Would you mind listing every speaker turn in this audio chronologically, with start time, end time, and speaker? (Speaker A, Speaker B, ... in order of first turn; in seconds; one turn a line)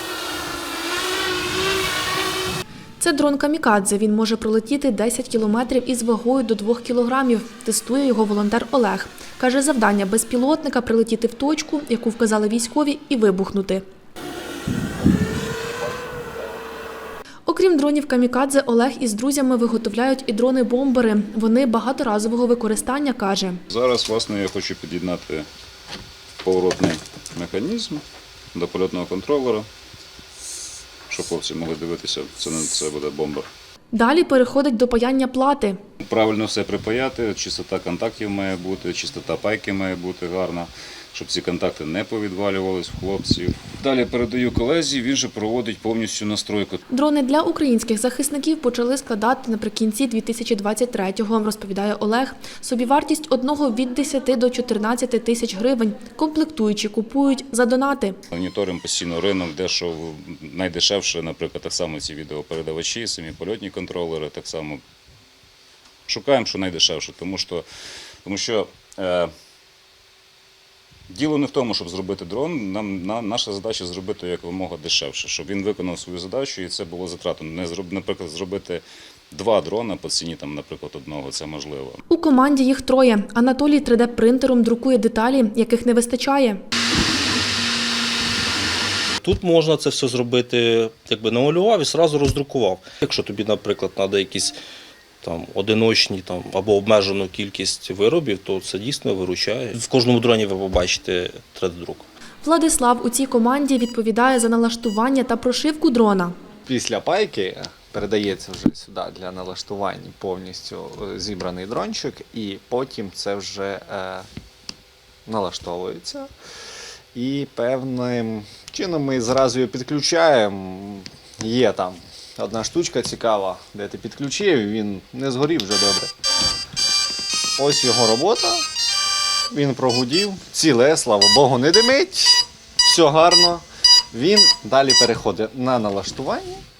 Speaker A: 3.0-13.8
Speaker A: 17.4-23.6
Speaker B: 23.7-25.5
Speaker B: 26.4-28.0
Speaker B: 28.5-29.7
Speaker B: 31.1-33.5
Speaker A: 33.9-35.8
Speaker B: 36.0-46.8
Speaker A: 46.9-58.2
Speaker B: 58.3-64.8
Speaker B: 66.1-67.6
Speaker B: 68.2-69.3
Speaker B: 71.1-82.0
Speaker A: 82.1-86.6
Speaker C: 89.2-94.6
Speaker C: 95.2-102.0
Speaker A: 102.4-106.3
Speaker D: 106.7-114.3
Speaker D: 115.3-116.3
Speaker D: 117.1-126.1
Speaker D: 127.6-128.6
Speaker D: 129.5-136.6